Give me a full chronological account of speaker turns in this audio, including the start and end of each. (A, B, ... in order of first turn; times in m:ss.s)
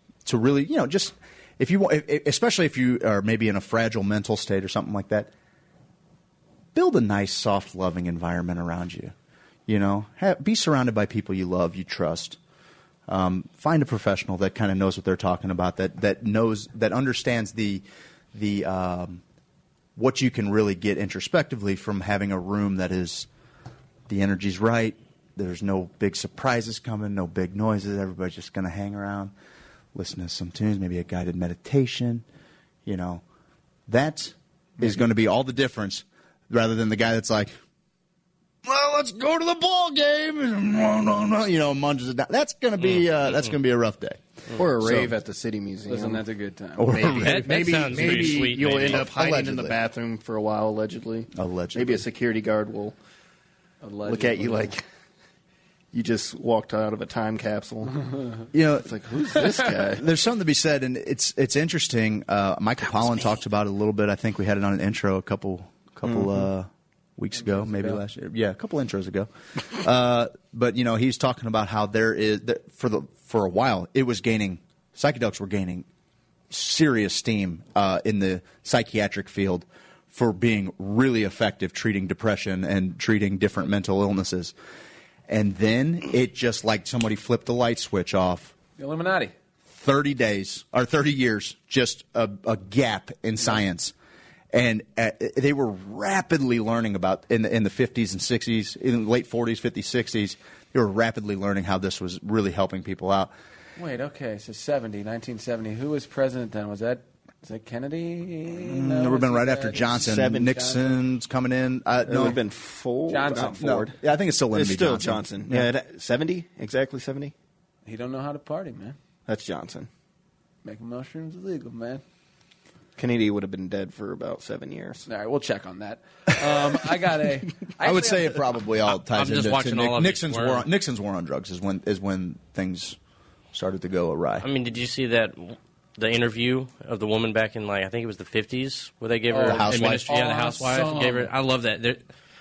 0:00.2-0:05.3 A
0:06.7-0:09.1 A
0:09.7-0:12.4 A
0:13.1-0:19.2 A
0:20.0-0:23.3 A
0:24.1-0:29.3 A
0:29.9-0:32.2 A
0:32.9-0:33.2 A
0:33.9-0:37.6 A
0:38.6-0:45.1 A
0:44.6-0:46.2 B
0:45.9-0:47.1 C
0:46.8-0:49.8 A
0:46.9-0:53.0 B
0:47.2-0:49.0 D
0:51.3-0:52.0 A
0:53.8-0:54.7 C
0:54.0-0:54.8 B
0:55.9-0:58.1 B
0:58.0-0:58.4 C
0:58.5-0:58.9 A
0:58.7-1:00.1 B
0:59.6-1:15.9 A
1:06.1-1:06.5 B
1:07.4-1:08.0 C
1:16.5-1:24.5 A
1:25.3-1:28.5 A
1:28.8-1:29.3 C
1:29.7-1:33.9 A
1:34.5-1:43.3 A
1:43.8-1:50.9 C
1:48.6-1:52.4 A
1:50.0-1:50.8 B
1:52.0-1:54.0 B
1:53.1-1:53.8 C
1:53.6-1:55.7 A
1:54.5-1:57.3 B
1:57.8-1:59.0 C
1:59.2-1:59.9 B
2:00.6-2:02.0 C
2:03.0-2:05.1 B
2:05.1-2:08.5 C
2:07.8-2:13.0 A
2:09.0-2:10.7 D
2:13.5-2:14.5 A
2:14.4-2:22.0 D
2:19.3-2:21.3 C
2:19.4-2:20.1 A